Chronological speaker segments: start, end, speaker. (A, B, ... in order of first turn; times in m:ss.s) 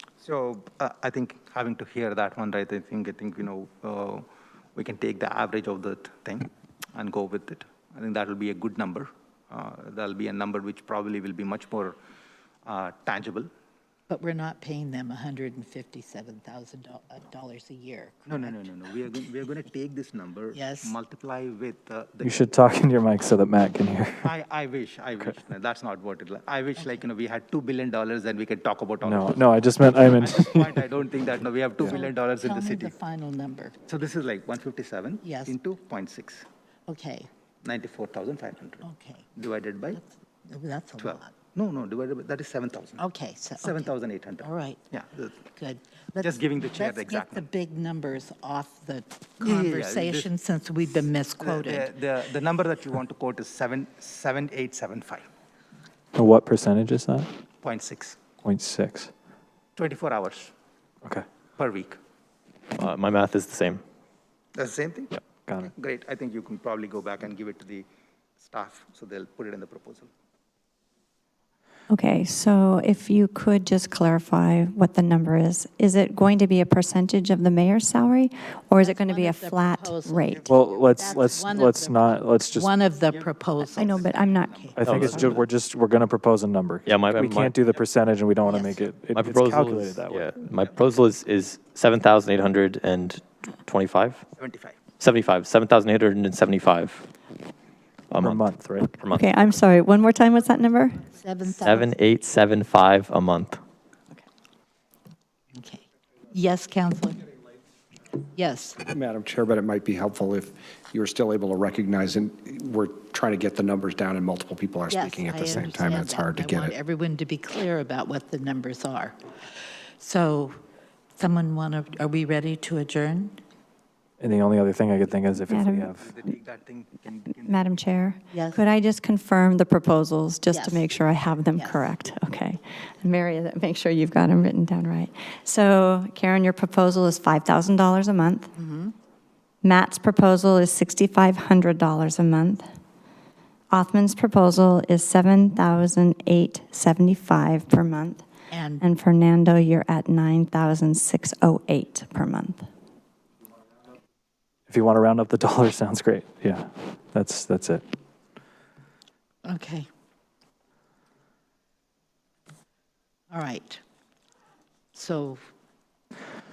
0:00.2-0:12.0 A
0:12.6-0:13.5 A
0:14.1-0:18.7 B
0:18.3-0:22.4 A
0:20.5-0:20.9 B
0:22.2-0:24.3 C
0:24.2-0:29.4 A
0:29.0-0:30.9 C
0:30.1-0:32.9 A
0:31.9-0:33.8 B
0:33.9-0:36.4 A
0:35.2-0:35.6 B
0:36.9-0:37.3 B
0:37.6-0:38.8 A
0:38.8-0:39.2 B
0:39.3-0:40.0 A
0:40.0-0:41.3 B
0:41.0-0:43.1 A
0:43.0-0:44.8 B
0:43.6-0:45.4 A
0:45.5-0:51.9 B
0:46.2-0:47.4 A
0:49.4-0:50.3 A
0:50.8-0:55.2 A
0:56.2-0:57.3 C
0:57.6-0:58.2 A
0:58.4-0:59.1 C
0:59.8-1:00.5 A
1:01.6-1:02.0 A
1:02.8-1:03.8 D
1:04.5-1:05.2 A
1:05.5-1:05.7 C
1:05.7-1:07.9 A
1:08.4-1:10.1 A
1:11.9-1:20.4 E
1:18.8-1:24.8 B
1:20.3-1:21.4 A
1:20.5-1:22.7 C
1:23.1-1:25.3 A
1:23.7-1:25.4 E
1:24.8-1:30.4 C
1:24.8-1:25.3 D
1:26.8-1:27.6 D
1:28.4-1:28.9 B
1:29.1-1:34.2 D
1:34.4-1:34.8 A
1:35.0-1:37.0 D
1:38.1-1:38.4 D
1:38.2-1:38.9 C
1:39.0-1:39.3 D
1:39.1-1:41.1 E
1:41.1-1:41.9 B
1:41.6-1:43.6 D
1:45.5-1:47.3 B
1:48.3-1:48.9 B
1:48.9-1:56.8 F
1:54.9-1:59.2 B
2:00.0-2:00.6 B
2:01.2-2:03.4 B
2:04.2-2:06.0 C
2:05.4-2:05.9 E
2:05.9-2:07.8 A
2:07.4-2:18.5 E
2:08.3-2:08.6 B
2:10.5-2:10.9 B
2:11.5-2:11.9 B
2:18.5-2:18.9 B
2:19.6-2:22.6 E
2:23.7-2:28.2 E
2:28.5-2:28.8 B
2:28.8-2:32.6 E
2:34.7-2:37.8 C
2:39.4-2:39.9 B
2:43.3-2:43.8 B
2:44.9-2:45.4 B